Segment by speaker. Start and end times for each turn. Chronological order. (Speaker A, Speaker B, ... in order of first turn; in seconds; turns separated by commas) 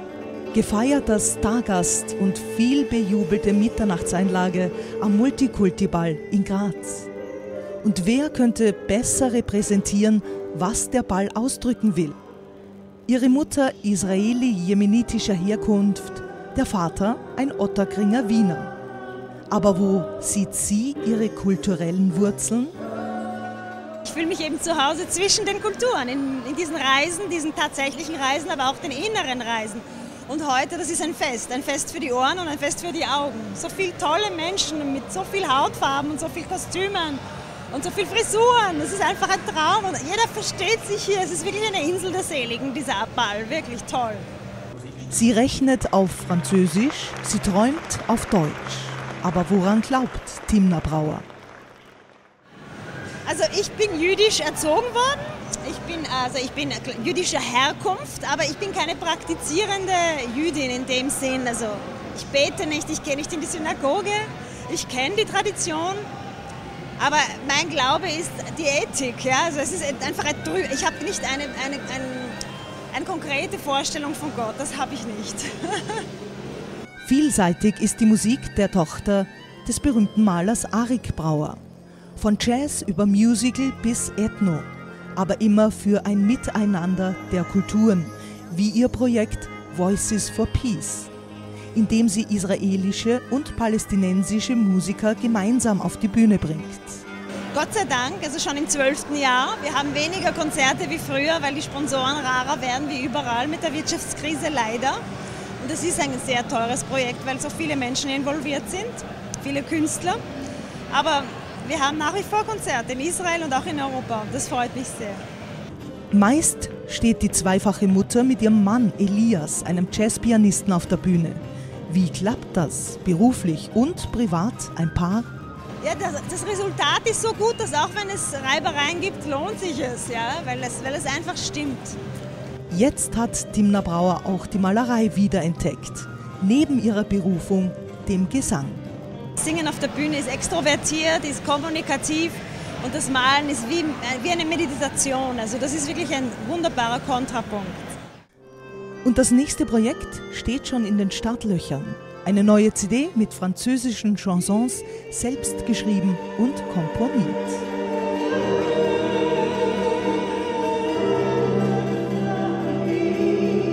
Speaker A: 0.5-7.1, Speaker A: 7.8-12.2, Speaker A: 13.1-18.7, Speaker A: 19.5-22.7, Speaker B: 24.0-44.2, Speaker A: 45.1-51.2, Speaker B: 53.2-66.0, Speaker B: 67.0-72.4, Speaker B: 72.9-76.0, Speaker A: 77.0-81.6, Speaker A: 82.2-91.1, Speaker A: 91.7-97.0, Speaker B: 97.5-105.0, Speaker B: 105.6-110.2, Speaker B: 110.9-115.2, Speaker A: 116.1-125.3, Speaker B: 125.8-131.9, Speaker A: 132.7-138.8, Speaker B: 139.4-147.8, Speaker A: 149.0-157.6